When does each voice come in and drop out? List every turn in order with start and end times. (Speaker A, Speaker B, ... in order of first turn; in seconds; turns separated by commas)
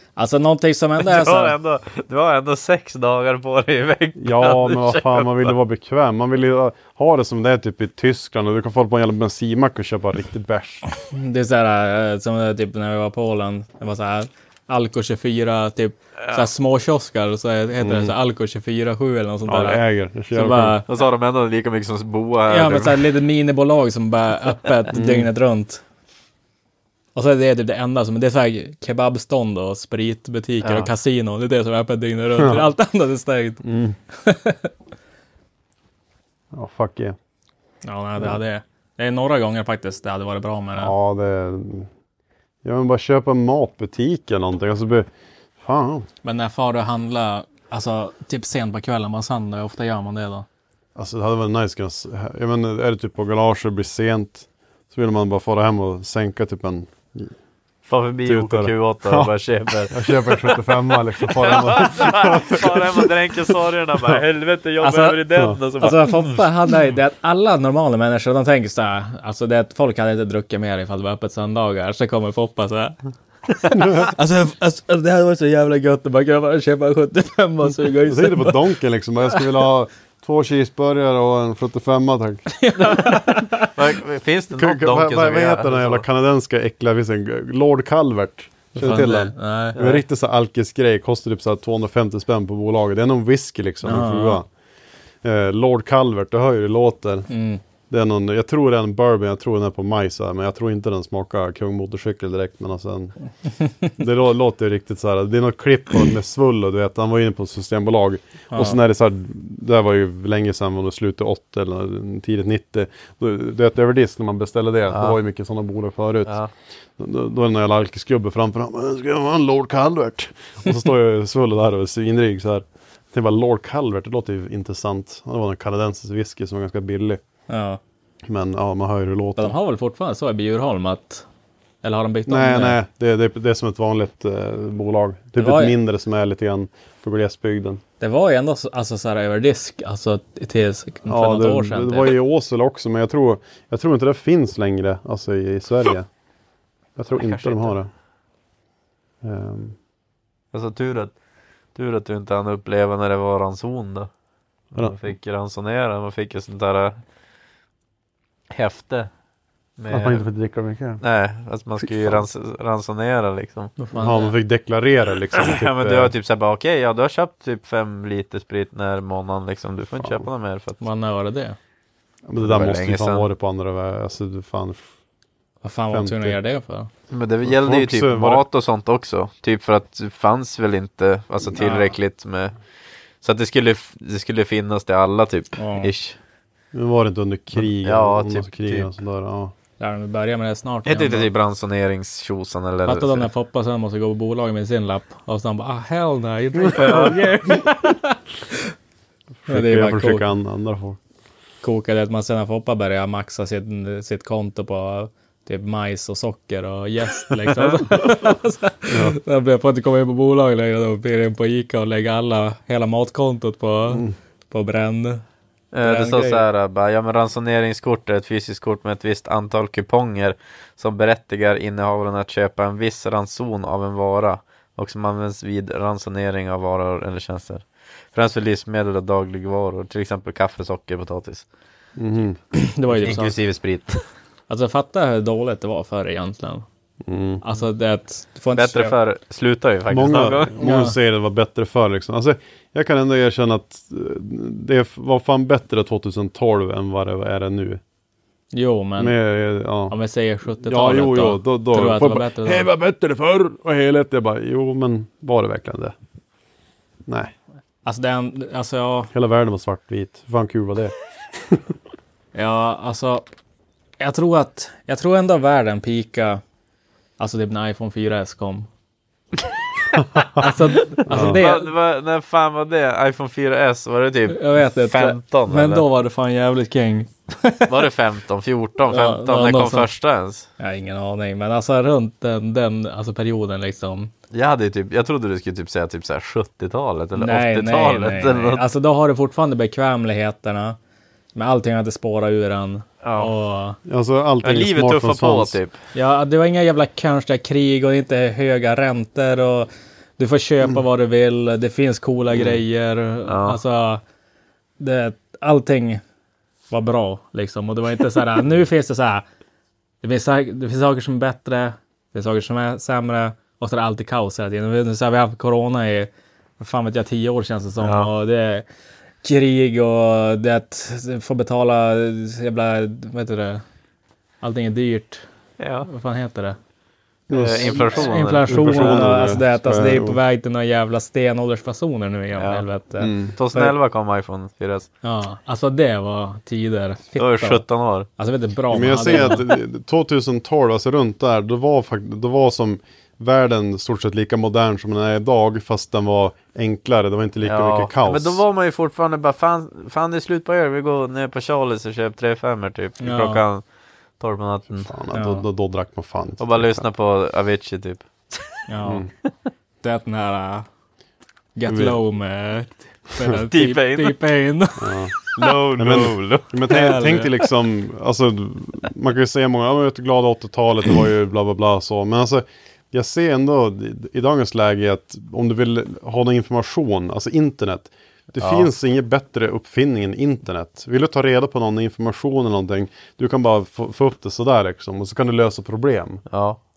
Speaker A: 0.1-1.6, Speaker B: 1.0-5.5, Speaker C: 4.2-10.8, Speaker A: 11.1-20.9, Speaker C: 17.8-18.1, Speaker C: 19.5-20.8, Speaker B: 20.9-23.0, Speaker A: 22.5-25.8, Speaker C: 24.9-25.3, Speaker A: 27.1-33.6, Speaker B: 30.6-30.9, Speaker C: 32.3-32.6, Speaker C: 33.6-34.0, Speaker A: 34.2-34.7, Speaker C: 36.5-37.1, Speaker A: 37.8-40.9, Speaker C: 40.8-41.9, Speaker C: 42.6-46.1, Speaker A: 46.2-50.5, Speaker C: 51.0-57.3, Speaker B: 57.9-60.7, Speaker C: 58.2-59.3, Speaker C: 59.9-63.5, Speaker B: 61.4-66.4, Speaker A: 64.8-73.0, Speaker A: 73.6-78.7, Speaker C: 78.0-82.5, Speaker A: 82.6-83.7, Speaker B: 82.8-86.0, Speaker C: 84.5-94.5, Speaker A: 88.7-89.8, Speaker B: 89.8-90.0, Speaker A: 93.8-94.4, Speaker C: 95.2-97.3, Speaker A: 97.3-97.6, Speaker C: 97.9-103.2, Speaker A: 103.6-103.9, Speaker C: 103.9-116.4, Speaker A: 108.5-108.8, Speaker B: 114.9-115.2, Speaker C: 117.0-127.2, Speaker A: 127.5-127.8, Speaker C: 128.2-129.6, Speaker A: 129.3-131.2, Speaker A: 131.8-132.8, Speaker C: 132.3-137.8, Speaker A: 135.3-135.7, Speaker A: 138.0-142.2, Speaker C: 141.0-146.1, Speaker C: 146.9-147.9, Speaker B: 147.1-147.8, Speaker C: 149.2-149.8, Speaker B: 150.5-151.2, Speaker B: 151.7-154.1, Speaker B: 154.7-157.0, Speaker B: 158.5-159.1, Speaker B: 159.8-160.2, Speaker C: 159.9-161.0, Speaker B: 161.0-163.8, Speaker C: 161.8-162.2, Speaker A: 163.9-164.3, Speaker C: 163.9-166.1, Speaker B: 165.3-170.8, Speaker C: 170.0-170.3, Speaker A: 170.8-171.6, Speaker C: 172.2-174.9, Speaker B: 172.4-173.3, Speaker A: 175.6-176.9, Speaker C: 175.9-176.4, Speaker B: 177.1-182.6, Speaker C: 177.4-178.4, Speaker C: 181.6-181.8, Speaker A: 181.6-181.8, Speaker B: 183.2-186.2, Speaker A: 185.6-185.9, Speaker C: 186.7-189.5, Speaker B: 187.6-188.9, Speaker A: 189.8-191.3, Speaker B: 190.8-193.3, Speaker A: 192.8-198.2, Speaker C: 196.6-197.1, Speaker C: 199.4-201.0, Speaker A: 199.5-200.2, Speaker A: 201.6-215.2, Speaker C: 208.9-209.2, Speaker C: 213.9-214.1, Speaker B: 215.7-231.5, Speaker A: 215.8-216.4, Speaker C: 231.9-233.2, Speaker A: 232.5-233.4, Speaker B: 233.0-234.1, Speaker A: 234.5-236.7, Speaker C: 237.1-237.4, Speaker A: 237.4-238.9, Speaker B: 238.5-240.5, Speaker C: 239.9-247.8, Speaker A: 240.6-240.9, Speaker A: 248.5-249.2, Speaker C: 249.0-249.9, Speaker A: 249.9-252.7, Speaker C: 250.6-255.9, Speaker C: 257.1-257.3, Speaker A: 257.8-259.1, Speaker C: 259.1-261.6, Speaker A: 262.3-263.2, Speaker A: 264.0-266.4, Speaker A: 267.2-268.7, Speaker C: 270.0-270.4, Speaker A: 270.4-271.7, Speaker B: 270.9-275.8, Speaker C: 271.1-271.4, Speaker A: 274.3-277.7, Speaker B: 277.7-280.5, Speaker A: 278.9-279.9, Speaker A: 280.6-284.1, Speaker B: 284.3-288.6, Speaker A: 287.1-290.8, Speaker A: 291.3-293.8, Speaker B: 293.0-293.3, Speaker C: 293.8-295.6, Speaker B: 294.4-295.8, Speaker A: 295.9-304.0, Speaker B: 303.2-303.6, Speaker A: 304.8-306.0, Speaker A: 306.7-309.2, Speaker A: 310.0-318.6, Speaker B: 317.8-318.1, Speaker A: 319.2-323.6, Speaker A: 324.4-325.2, Speaker B: 325.6-325.9, Speaker A: 325.9-326.6, Speaker C: 327.3-330.2, Speaker B: 327.3-329.1, Speaker A: 327.7-333.7, Speaker B: 332.3-332.6, Speaker C: 333.0-333.3, Speaker B: 333.3-334.9, Speaker A: 335.0-337.6, Speaker B: 337.1-338.1, Speaker A: 338.2-339.5, Speaker C: 338.7-348.4, Speaker B: 339.1-339.4, Speaker B: 347.4-353.6, Speaker A: 353.0-353.4, Speaker B: 354.2-354.9, Speaker C: 354.8-356.9, Speaker A: 355.1-355.4, Speaker B: 356.4-358.6, Speaker A: 358.7-359.0, Speaker C: 358.8-359.1, Speaker A: 359.8-360.7, Speaker A: 361.5-365.5, Speaker C: 361.7-362.0, Speaker B: 363.4-364.2, Speaker C: 364.8-365.1, Speaker B: 365.3-366.5, Speaker C: 365.8-386.2, Speaker A: 366.7-367.3, Speaker B: 378.4-378.7, Speaker B: 386.3-386.6